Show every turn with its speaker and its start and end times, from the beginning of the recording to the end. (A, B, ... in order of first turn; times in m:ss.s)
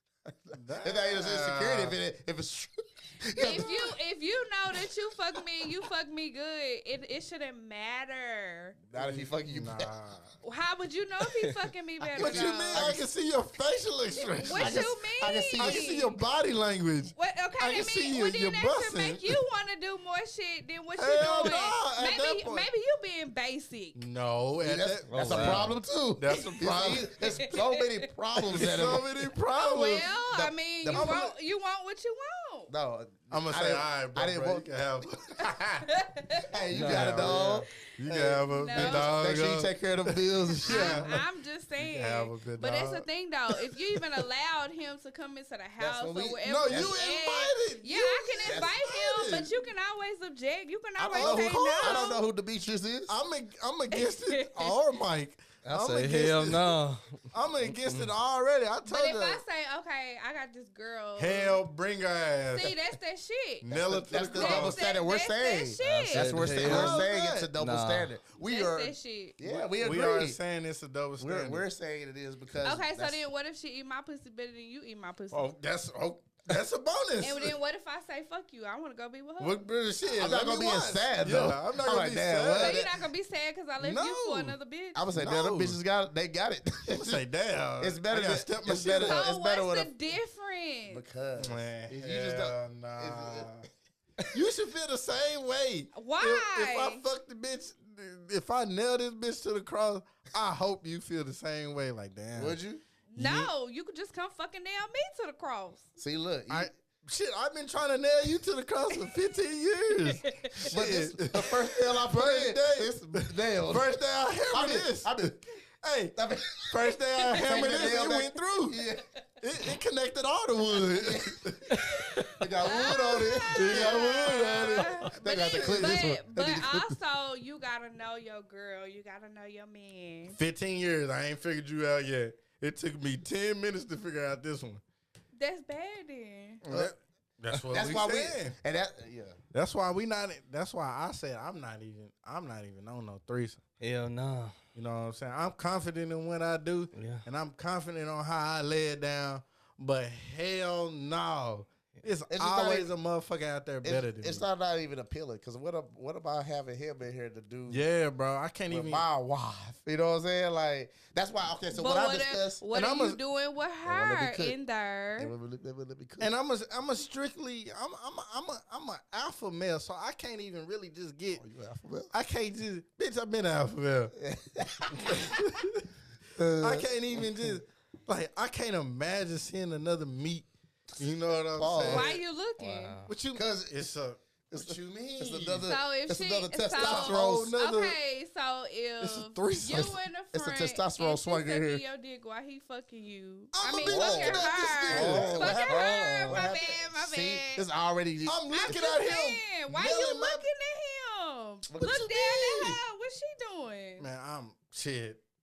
0:00.3-0:03.9 A
0:00.5-0:02.0 B
0:03.4-0:08.8 C
0:08.9-0:09.9 A
0:08.9-0:10.3 B
0:10.4-0:12.9 C
0:12.1-0:13.1 A
0:12.2-0:14.9 B
0:14.2-0:16.2 C
0:14.5-0:15.8 A
0:15.6-0:19.4 B
0:17.2-0:24.0 C
0:21.0-0:22.7 B
0:23.9-0:27.1 B
0:24.6-0:29.0 A
0:25.1-0:25.7 D
0:27.2-0:27.8 C
0:28.5-0:30.1 B
0:29.5-0:32.7 C
0:30.2-0:31.3 A
0:30.9-0:31.3 B
0:32.7-0:35.1 A
0:33.3-0:35.8 B
0:35.9-0:36.5 C
0:36.4-0:41.2 A
0:36.7-0:37.6 D
0:36.7-0:41.2 B
0:38.4-0:39.1 C
0:40.6-0:52.2 C
0:41.8-0:44.2 B
0:45.8-0:47.0 A
0:46.4-0:49.6 B
0:48.4-0:48.7 A
0:51.0-0:53.2 A
0:51.1-0:52.1 B
0:53.1-0:56.8 B
0:53.9-0:54.7 C
0:55.6-0:58.1 D
0:57.3-0:59.4 B
0:58.8-1:01.6 C
1:01.2-1:02.8 B
1:02.5-1:06.5 C
1:03.6-1:04.8 B
1:03.7-1:10.4 A
1:05.8-1:08.1 D
1:06.5-1:07.5 B
1:08.4-1:09.4 C
1:09.4-1:11.6 B
1:11.2-1:13.2 A
1:12.6-1:15.5 C
1:15.3-1:17.6 B
1:17.2-1:19.7 C
1:19.4-1:22.9 B
1:20.1-1:22.9 A
1:22.5-1:25.0 C
1:23.8-1:24.6 B
1:25.0-1:27.2 A
1:25.1-1:25.8 B
1:26.9-1:29.2 B
1:27.8-1:29.9 A
1:29.0-1:31.0 C
1:30.9-1:33.5 A
1:31.4-1:33.7 B
1:34.3-1:42.6 B
1:35.9-1:37.0 C
1:42.3-1:42.8 A
1:43.1-1:45.9 C
1:43.1-1:43.5 B
1:46.0-1:46.7 A
1:46.5-1:58.8 B
1:50.2-1:50.7 C
1:50.6-1:55.4 A
1:56.1-1:56.8 A
1:57.2-1:57.7 C
1:57.3-1:59.0 A
1:59.4-2:02.3 B
2:00.9-2:01.4 A
2:01.9-2:10.4 C
2:02.3-2:07.0 A
2:03.5-2:06.1 B
2:10.2-2:14.8 B
2:15.4-2:16.6 C
2:16.6-2:18.6 B
2:16.7-2:16.9 A
2:17.7-2:19.4 A
2:19.5-2:23.6 B
2:23.8-2:24.6 D
2:24.7-2:34.5 B
2:26.9-2:27.2 D
2:32.3-2:32.9 A
2:33.8-2:37.8 A
2:37.7-2:39.0 B
2:38.7-2:42.6 A
2:41.7-2:45.3 C
2:42.7-2:43.2 B
2:43.8-2:44.6 A
2:45.2-2:46.3 A
2:46.2-2:51.4 B
2:51.4-2:52.1 A
2:52.1-2:54.1 B
2:54.2-2:55.4 A
2:55.0-2:55.9 B
2:56.3-2:57.6 A
2:56.6-3:02.1 B
3:01.6-3:02.2 A
3:01.8-3:03.0 C
3:02.6-3:03.1 D
3:03.0-3:05.7 B
3:03.3-3:03.8 A
3:04.5-3:07.5 A
3:05.6-3:17.6 C
3:06.7-3:08.0 B
3:09.0-3:09.9 B
3:09.7-3:11.8 A
3:13.5-3:16.5 B
3:13.7-3:18.9 A
3:18.2-3:20.4 B
3:18.5-3:24.1 C
3:21.7-3:22.8 A
3:24.0-3:25.2 B